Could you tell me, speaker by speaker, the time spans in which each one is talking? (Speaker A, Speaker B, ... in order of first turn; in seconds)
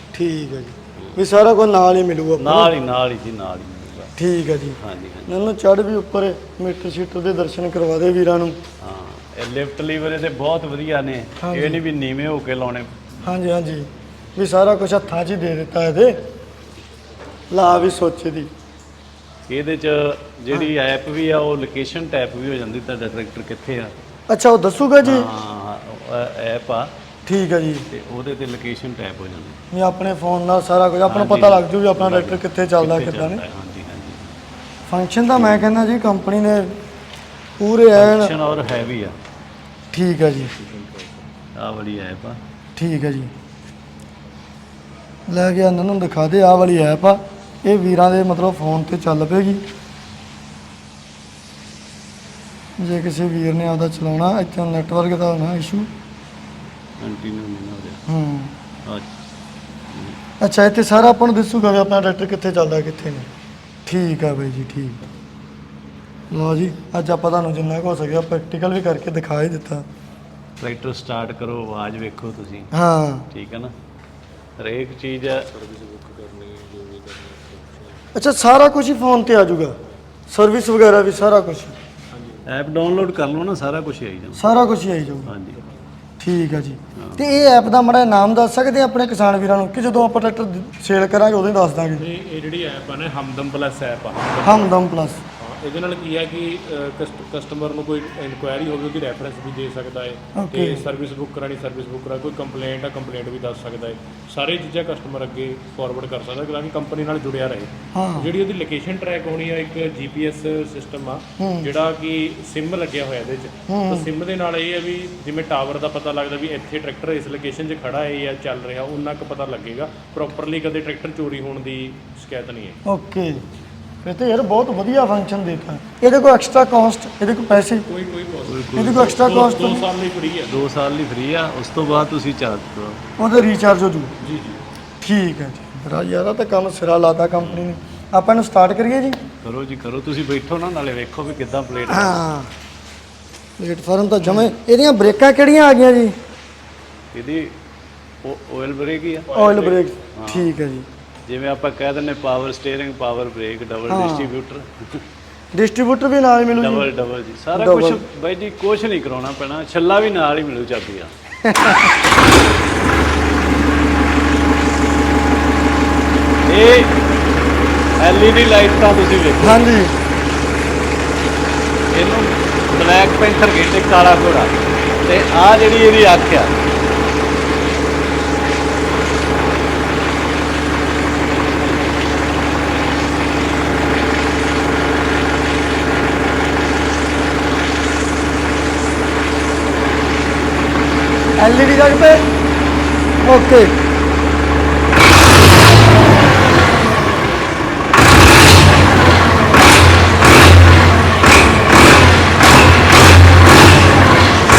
Speaker A: 0.1-2.7, 4.2-8.6, 11.4-11.8, 13.2-16.2, 17.5-18.5, 24.3-25.3, 27.3-27.9, 29.7-33.4, 34.9-36.8, 37.6-38.3, 39.9-40.5, 42.8-43.3, 45.3-49.6, 52.8-55.9, 58.1-58.5, 60.4-63.3, 63.9-65.0, 66.3-69.8, 72.7-73.3, 78.1-79.7, 80.3-81.7, 84.4-85.3, 86.2-92.0, 94.4-95.2, 100.3-100.8, 107.9-108.3, 111.4-111.7, 113.7-114.1, 122.8-123.4, 124.0-127.8, 128.8-129.8, 133.2-134.1, 135.0-139.2, 141.9-142.5, 143.6-146.1, 149.3-150.8, 153.9-154.3, 155.5-156.9, 157.5-158.0, 161.4-161.9, 169.4-169.9, 191.4-192.2, 193.2-193.8
Speaker B: 2.4-4.1, 4.8-5.3, 8.8-13.3, 17.6-18.0, 19.5-23.9, 25.0-26.9, 27.9-29.6, 31.1-34.3, 35.3-35.7, 38.0-39.1, 41.6-42.4, 57.0-58.0, 59.9-60.2, 70.6-72.7, 73.3-73.7, 74.6-75.5, 82.5-84.4, 85.2-85.6, 87.0-87.2, 128.4-129.3, 130.4-133.0, 137.4-138.1, 139.4-142.2, 147.1-147.5, 148.2-149.4, 150.2-150.6, 151.3-155.0, 156.5-161.1, 166.5-167.0, 168.0-169.6, 171.9-176.6
Speaker C: 75.6-77.9, 82.2-82.4, 92.0-94.8, 95.4-122.8, 127.8-130.5, 134.2-134.6